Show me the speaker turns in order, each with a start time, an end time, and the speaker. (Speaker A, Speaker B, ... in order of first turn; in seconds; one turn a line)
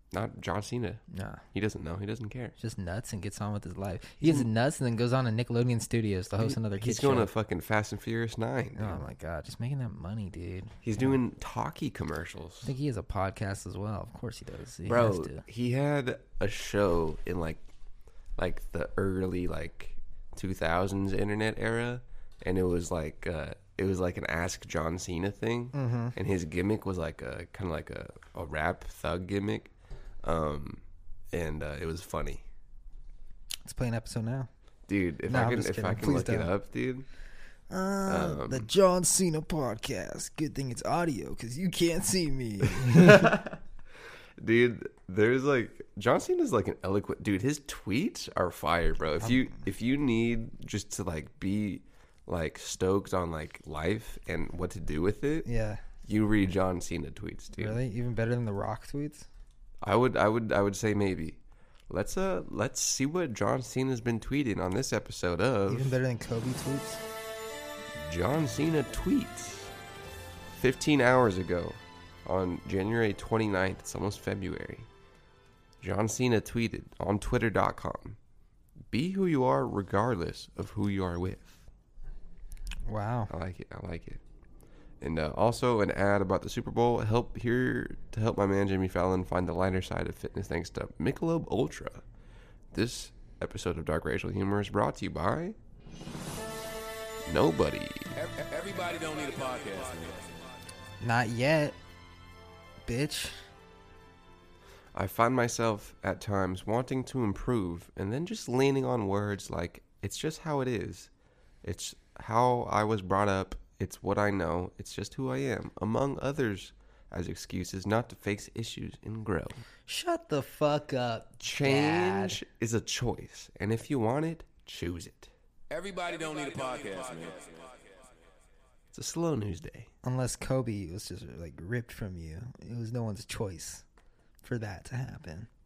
Speaker A: 0.1-2.5
Speaker B: 1.1-1.4
Speaker B: 2.6-7.3
Speaker A: 4.2-4.5
Speaker A: 6.4-9.1
Speaker B: 8.8-11.1
Speaker A: 10.8-12.7
Speaker B: 12.6-15.4
Speaker A: 14.9-17.6
Speaker A: 18.4-32.4
Speaker B: 25.7-26.1
Speaker B: 33.6-34.5
Speaker A: 34.9-37.1
Speaker B: 35.3-36.5
Speaker B: 37.7-43.4
Speaker A: 38.1-38.7
Speaker A: 42.7-43.6
Speaker A: 44.4-55.5
Speaker B: 49.2-49.5
Speaker B: 55.5-55.8
Speaker A: 56.0-57.8
Speaker B: 57.6-59.3
Speaker A: 59.8-66.0
Speaker B: 65.7-67.0
Speaker A: 68.0-69.7
Speaker A: 70.5-74.9
Speaker A: 75.8-78.2
Speaker A: 78.9-81.6
Speaker B: 82.9-83.3
Speaker A: 83.3-84.2
Speaker A: 85.0-92.0
Speaker A: 92.7-95.6
Speaker A: 97.2-98.1
Speaker C: 98.2-100.5
Speaker B: 101.0-101.8
Speaker B: 102.8-103.4
Speaker A: 104.9-111.1
Speaker A: 111.6-119.6
Speaker B: 119.9-122.4
Speaker A: 121.4-125.3
Speaker C: 125.7-127.8
Speaker A: 128.9-129.9
Speaker B: 130.0-133.8
Speaker B: 134.4-135.5